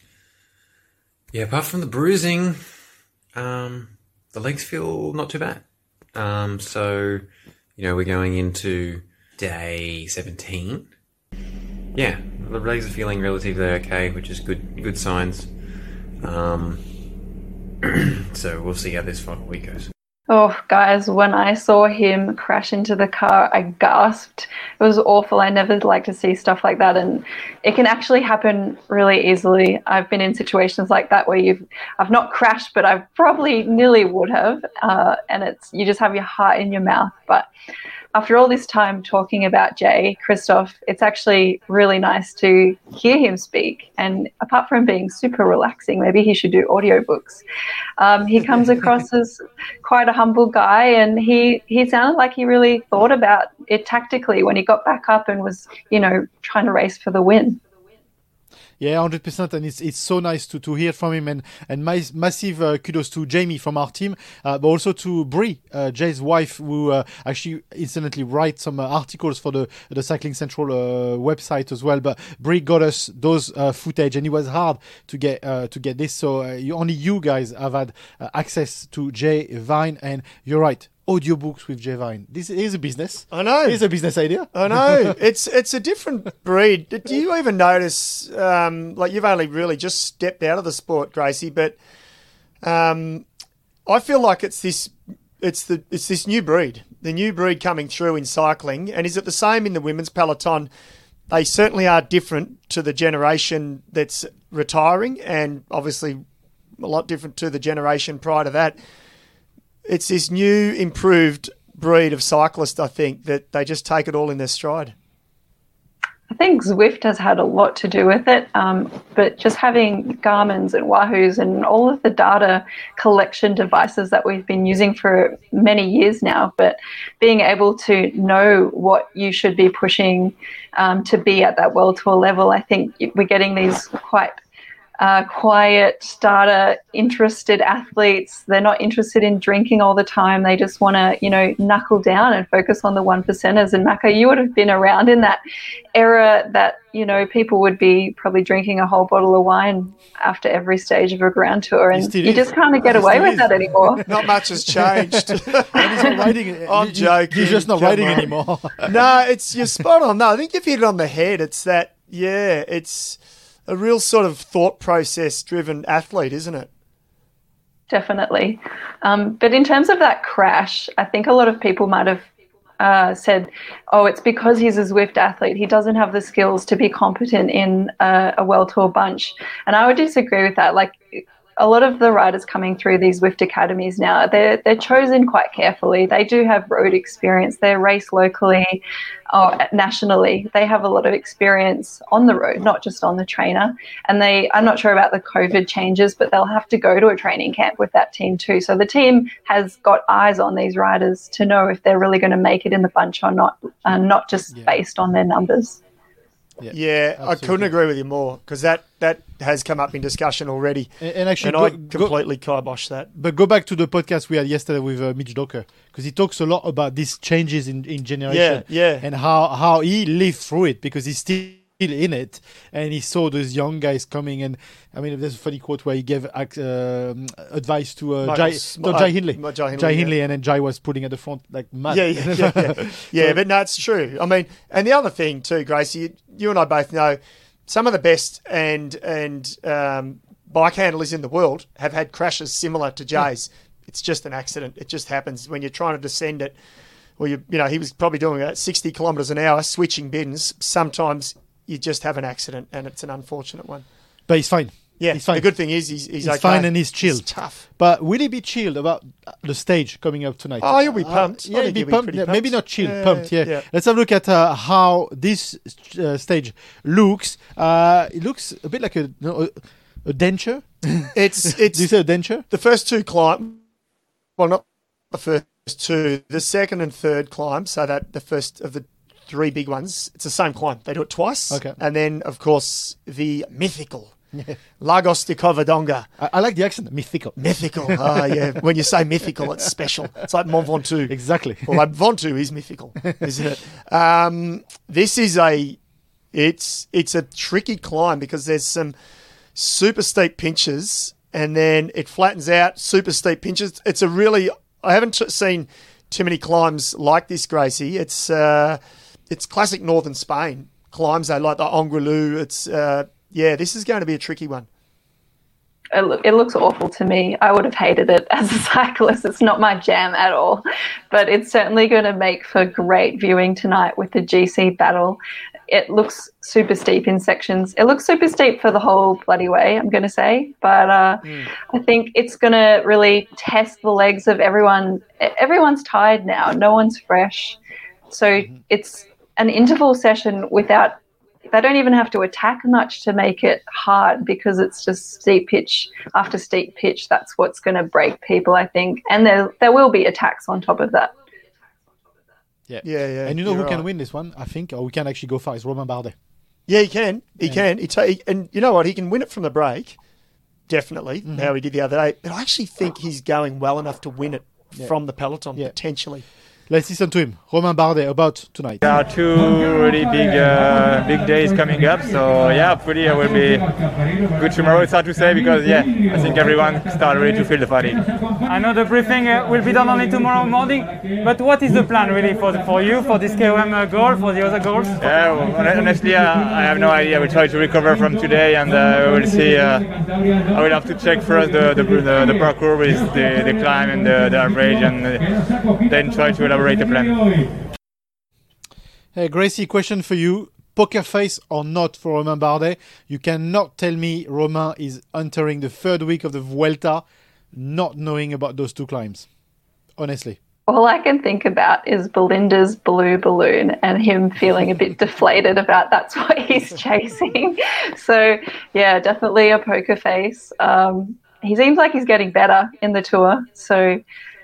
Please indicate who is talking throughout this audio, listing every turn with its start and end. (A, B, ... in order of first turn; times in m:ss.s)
0:01.3-0:11.0 A
0:11.9-0:17.2 A
0:17.8-0:19.9 A
0:20.3-0:37.4 B
0:38.1-0:47.4 B
0:48.0-0:57.6 B
0:58.8-1:25.2 C
1:23.3-1:23.8 D
1:24.5-1:31.8 D
1:32.6-1:33.3 D
1:33.8-1:40.7 D
1:41.3-1:46.2 D
1:46.8-1:48.8 D
1:49.8-1:54.9 D
1:56.3-2:14.4 B
2:15.0-2:25.4 B
2:25.9-2:34.0 B
2:31.9-2:39.0 C
2:34.0-2:46.7 D
2:47.9-2:52.3 B
2:52.8-3:08.8 B
3:09.3-3:25.8 B
3:26.6-3:27.7 C
3:26.7-3:33.1 D
3:31.0-3:32.2 C
3:33.2-3:53.4 C
3:38.3-3:39.0 D
3:48.2-3:50.1 D
3:51.9-4:06.6 D
4:07.2-4:13.9 D
4:14.3-4:31.2 C
4:15.0-4:17.6 D
4:20.6-4:23.6 D
4:31.1-4:33.6 D
4:31.7-4:32.4 C
4:34.4-4:44.2 D
4:41.5-4:41.8 C
4:44.8-4:46.1 D
4:46.2-4:48.4 C
4:47.4-4:55.8 D
4:51.1-4:51.9 C
4:56.3-4:58.9 D
4:59.5-5:14.7 D
5:15.9-5:37.6 B
5:31.2-5:31.5 D
5:38.1-5:41.0 B
5:41.5-5:51.1 B
5:52.7-5:56.1 C
5:52.8-5:53.8 D
5:56.7-6:00.0 D
6:00.7-6:06.2 D
6:01.2-6:01.5 C
6:04.7-6:05.7 C
6:06.7-6:08.8 C
6:08.8-6:13.7 E
6:14.3-6:18.0 E
6:18.4-6:25.0 F
6:25.0-6:29.9 E
6:30.5-6:35.3 E
6:35.8-6:37.3 E
6:39.1-6:49.3 C
6:50.0-6:50.4 C
6:50.7-7:04.0 B